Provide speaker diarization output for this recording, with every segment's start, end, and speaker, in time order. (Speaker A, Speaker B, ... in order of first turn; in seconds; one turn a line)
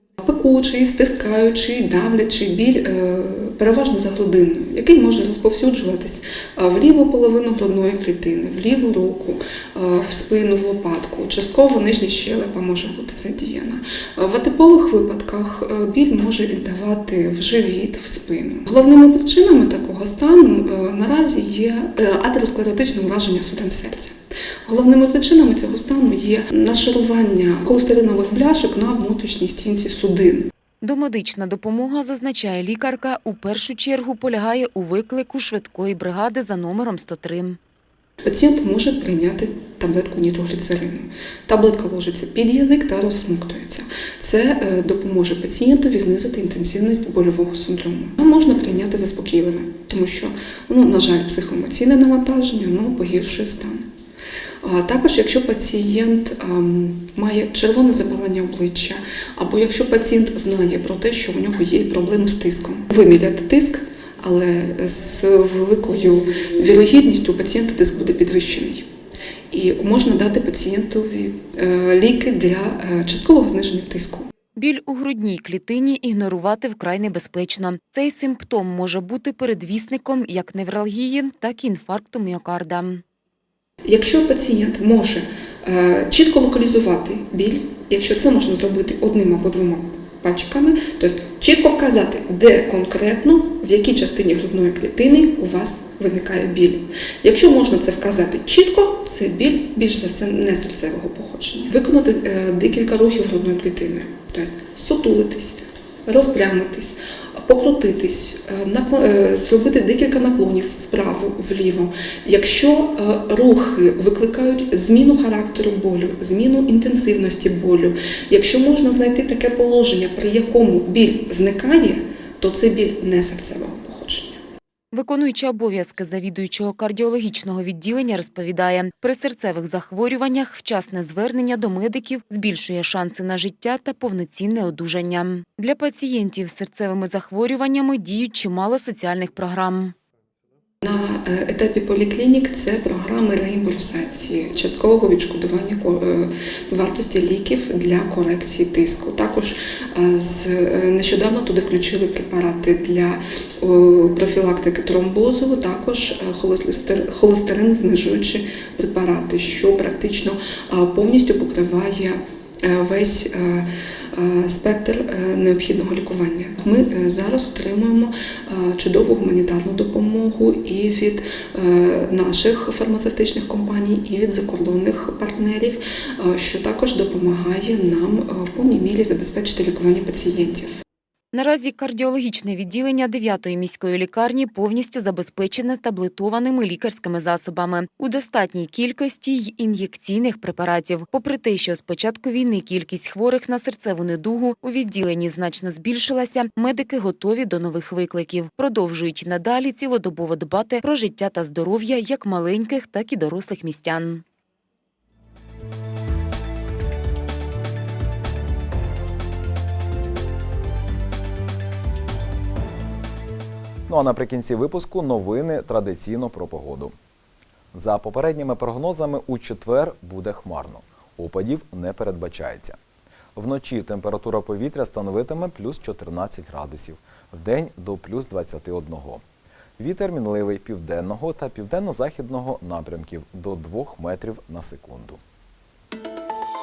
Speaker A: 0.2-24.1
Speaker A: 24.6-30.5
Speaker B: 30.8-37.6
Speaker A: 38.2-53.9
Speaker A: 54.6-68.9
Speaker A: 69.5-74.3
Speaker B: 74.5-83.0
Speaker A: 83.8-124.4
Speaker B: 124.9-139.9
Speaker A: 140.8-180.7
Speaker B: 181.3-204.2
Speaker C: 213.9-216.9
Speaker C: 217.7-222.8
Speaker C: 223.3-229.2
Speaker C: 229.8-235.2